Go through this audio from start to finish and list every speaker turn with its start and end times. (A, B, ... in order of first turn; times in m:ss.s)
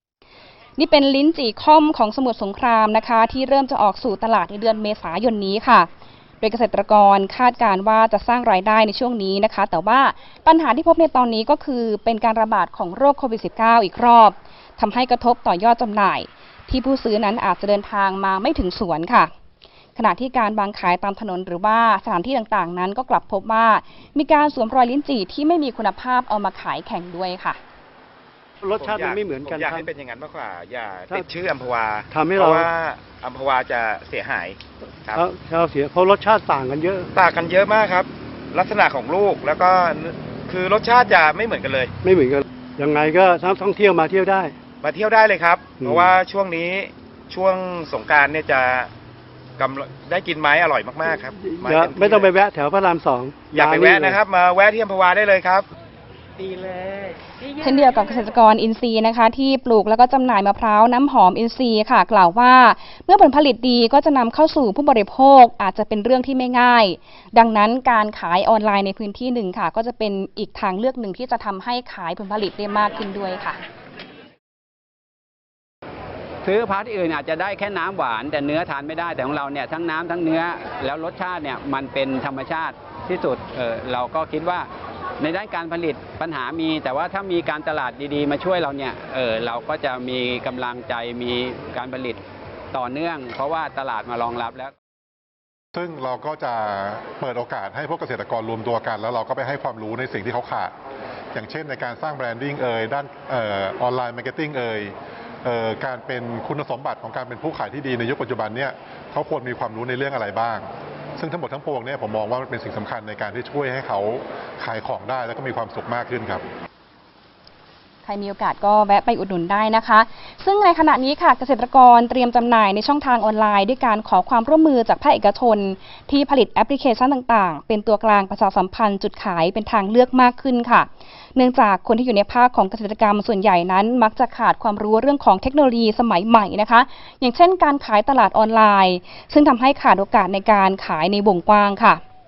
0:00.8-0:05.9 A
0:06.4-0:19.3 A
0:20.0-0:27.6 A
0:28.6-0:29.9 B
0:28.7-0:35.2 C
0:32.1-0:32.7 B
0:35.1-0:37.1 B
0:37.1-0:41.9 C
0:42.0-0:44.6 B
0:44.8-0:48.9 C
0:45.8-0:46.1 B
0:49.6-0:52.3 C
0:51.4-0:54.2 B
0:53.5-0:55.7 C
0:57.6-1:13.6 A
1:16.4-1:24.7 D
1:25.2-1:32.2 D
1:32.7-1:34.7 D
1:35.7-1:40.7 E
1:41.3-1:56.4 E
1:58.0-2:22.0 A